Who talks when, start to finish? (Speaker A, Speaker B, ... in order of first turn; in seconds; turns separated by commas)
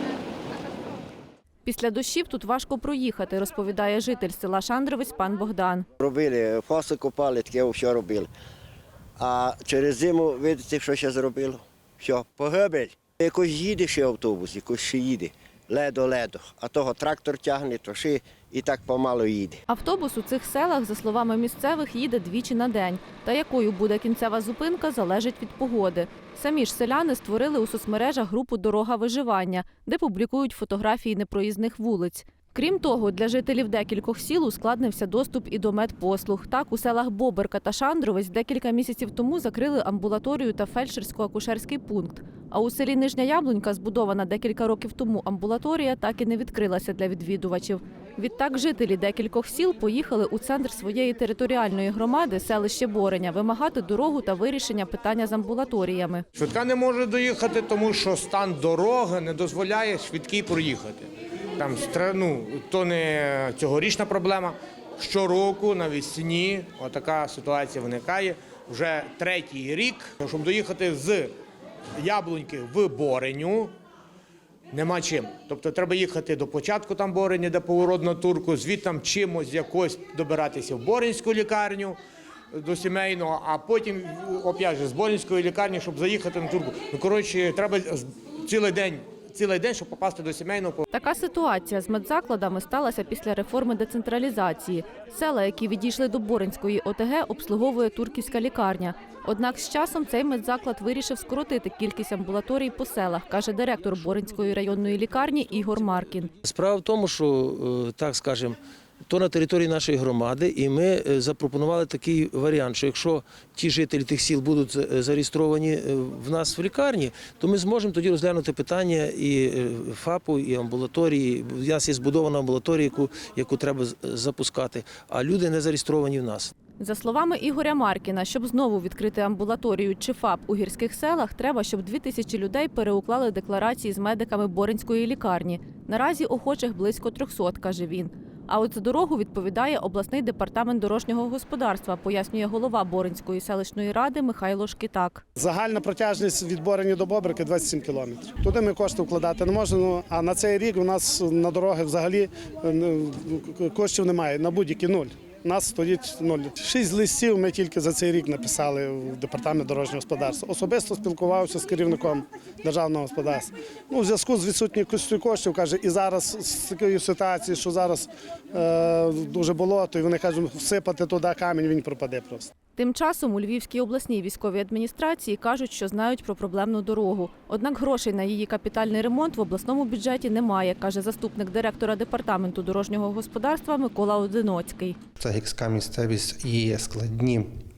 Speaker A: 1.6-5.9, Speaker B: 6.0-8.3, Speaker B: 9.2-19.6, Speaker A: 19.7-56.2, Speaker C: 56.3-61.1, Speaker C: 61.6-71.3, Speaker C: 72.0-73.7, Speaker C: 74.7-82.0, Speaker C: 82.5-90.8, Speaker A: 90.9-106.3, Speaker D: 106.4-126.5, Speaker A: 126.8-145.2, Speaker E: 145.4-172.5, Speaker A: 172.8-185.0, Speaker F: 185.2-187.5